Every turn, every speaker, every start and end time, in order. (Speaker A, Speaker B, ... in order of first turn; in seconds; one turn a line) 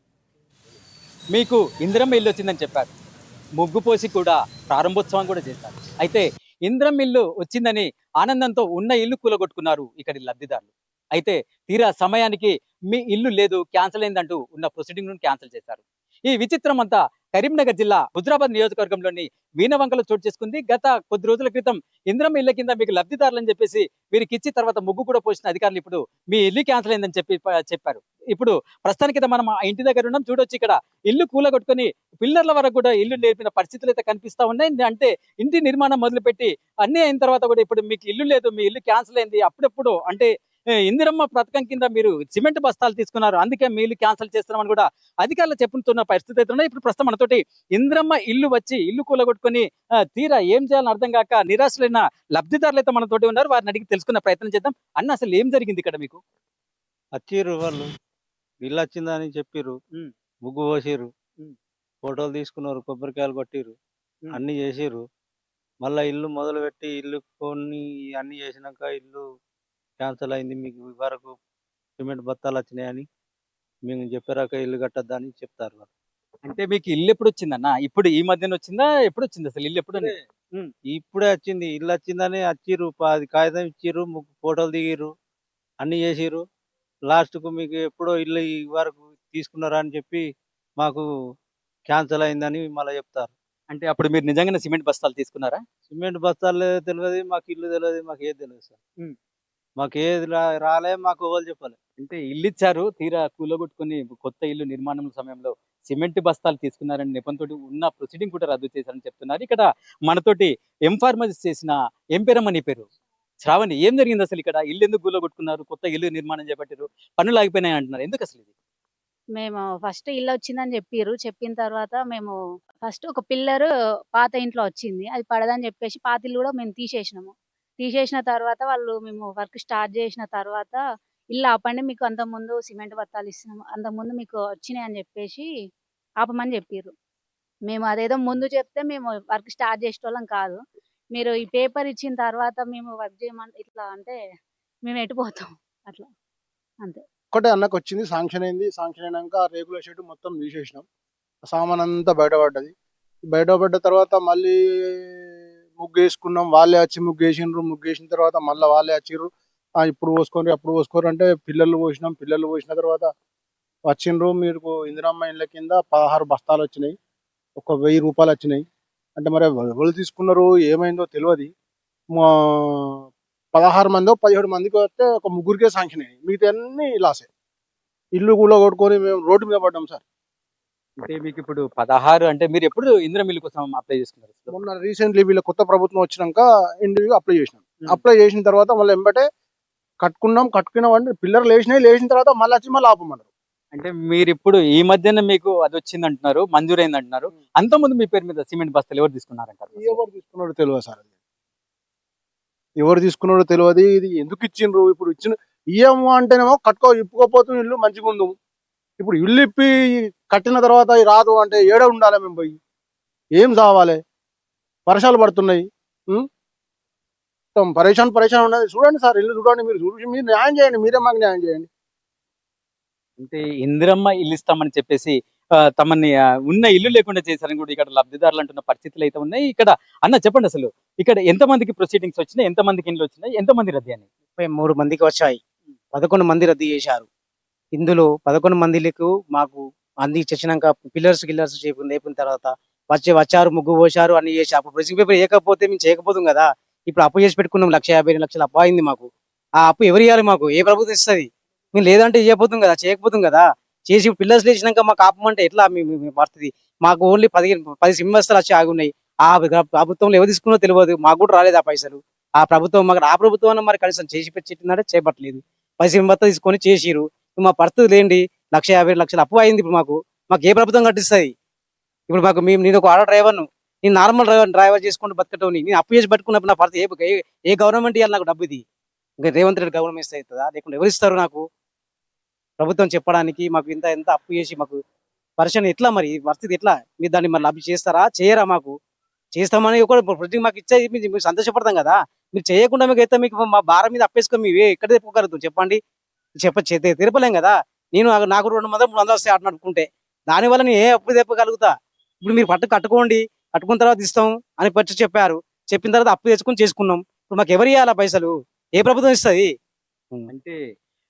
Speaker A: 1.3-2.9
Speaker A: 3.6-40.3
Speaker A: 40.8-56.2
Speaker B: 57.2-57.9
Speaker B: 58.6-59.8
Speaker B: 60.4-61.1
Speaker B: 62.0-63.8
Speaker B: 64.3-65.0
Speaker B: 65.8-69.2
Speaker B: 70.0-71.3
Speaker B: 72.0-73.0
Speaker B: 73.9-75.9
Speaker A: 76.4-80.7
Speaker B: 80.9-85.1
Speaker B: 85.8-86.4
Speaker B: 87.1-90.2
Speaker B: 90.8-91.0
Speaker B: 91.9-93.3
Speaker A: 93.7-95.6
Speaker B: 95.9-98.8
Speaker B: 99.8-101.8
Speaker A: 102.0-112.9
Speaker A: 113.4-118.5
Speaker C: 119.4-130.8
Speaker C: 131.3-135.4
Speaker C: 136.2-136.9
Speaker C: 137.7-140.6
Speaker C: 141.1-144.2
Speaker C: 144.8-146.1
Speaker D: 147.3-150.8
Speaker D: 151.4-152.7
Speaker D: 153.2-163.1
Speaker D: 163.8-166.9
Speaker D: 167.6-171.5
Speaker D: 172.1-177.3
Speaker D: 178.1-180.0
Speaker A: 181.0-184.5
Speaker D: 184.5-189.3
Speaker D: 190.0-193.3
Speaker A: 193.7-200.0
Speaker D: 199.7-201.0
Speaker D: 202.8-208.3
Speaker D: 209.0-212.6
Speaker D: 213.3-214.0
Speaker D: 214.8-216.3
Speaker D: 217.5-221.7
Speaker A: 223.2-225.1
Speaker A: 225.8-234.1
Speaker E: 234.4-235.4
Speaker E: 235.9-237.1
Speaker E: 237.7-249.1
Speaker E: 249.6-271.3
Speaker E: 272.1-278.6
Speaker E: 279.2-281.4
Speaker E: 282.6-284.8
Speaker E: 285.4-288.7
Speaker E: 289.3-295.8
Speaker E: 296.4-309.5
Speaker A: 310.3-310.6